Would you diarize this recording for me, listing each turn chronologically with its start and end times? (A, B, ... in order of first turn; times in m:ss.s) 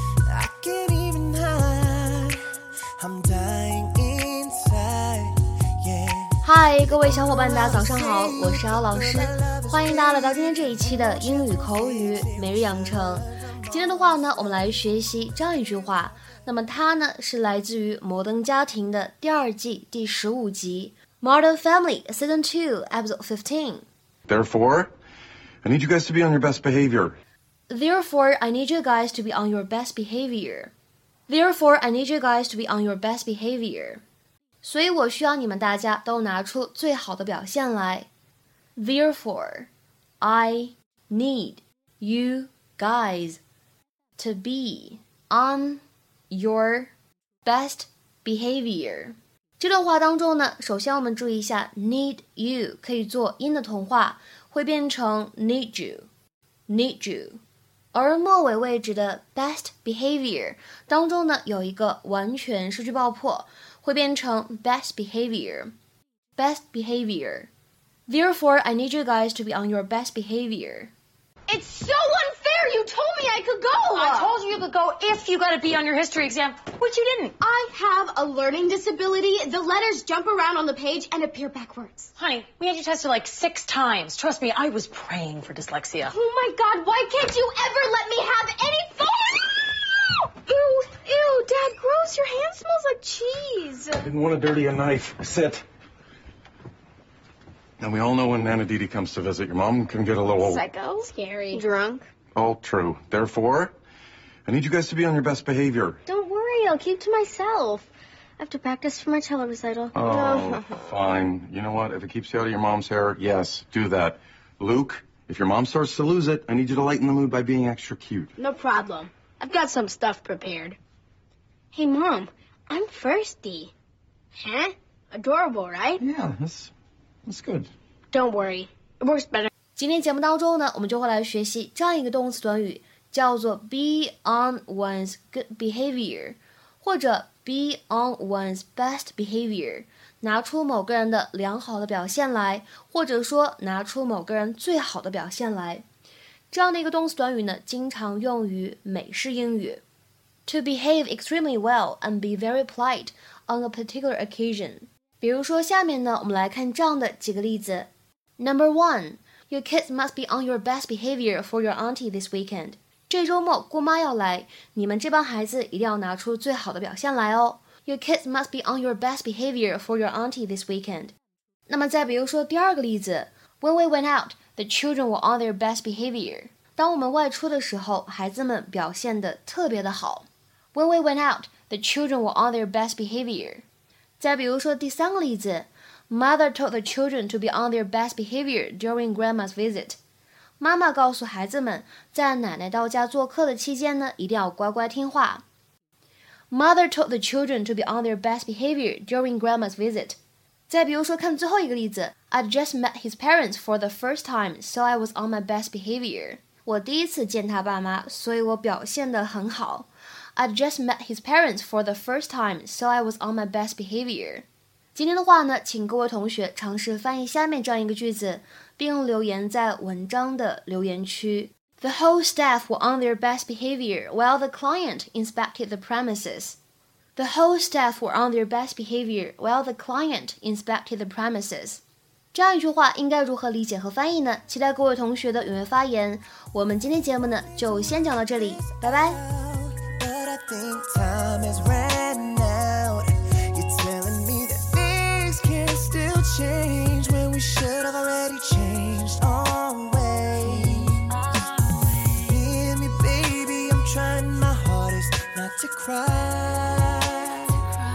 0:00.3-0:14.4 A
0:06.4-0:23.9 B
0:24.3-0:24.9 C
0:25.6-0:27.2 C
0:27.7-0:30.7 B
0:31.3-0:34.0 B
0:34.6-0:38.1 B
0:38.8-0:39.7 B
0:40.2-0:43.4 B
0:44.2-0:46.9 B
0:47.4-0:56.1 B
0:56.7-0:57.4 B
0:57.9-1:05.7 B
1:06.4-1:07.5 B
1:08.1-1:10.9 B
1:11.5-1:14.3 D
1:13.9-1:17.4 E
1:17.4-1:22.1 D
1:22.2-1:26.2 E
1:26.1-1:34.0 D
1:34.0-1:35.6 C
1:37.8-1:40.6 C
1:40.4-1:42.1 D
1:42.4-1:43.7 C
1:44.5-1:46.0 C
1:46.1-1:47.9 D
1:48.4-1:50.6 D
1:49.9-1:58.3 C
1:58.4-2:00.8 D
2:01.7-2:03.7 D
2:04.4-2:06.0 D
2:06.0-2:06.7 C
2:07.3-2:07.7 C
2:08.1-2:09.5 D
2:09.8-2:25.8 B
2:26.5-2:29.8 B
2:30.5-2:51.1 B
2:51.7-3:03.6 B
3:04.2-3:10.0 B
3:10.6-3:15.4 B
3:16.5-3:46.6 B
3:47.2-3:51.8 B
3:52.3-3:59.2 B
3:57.4-4:11.2 A
4:12.2-4:17.7 A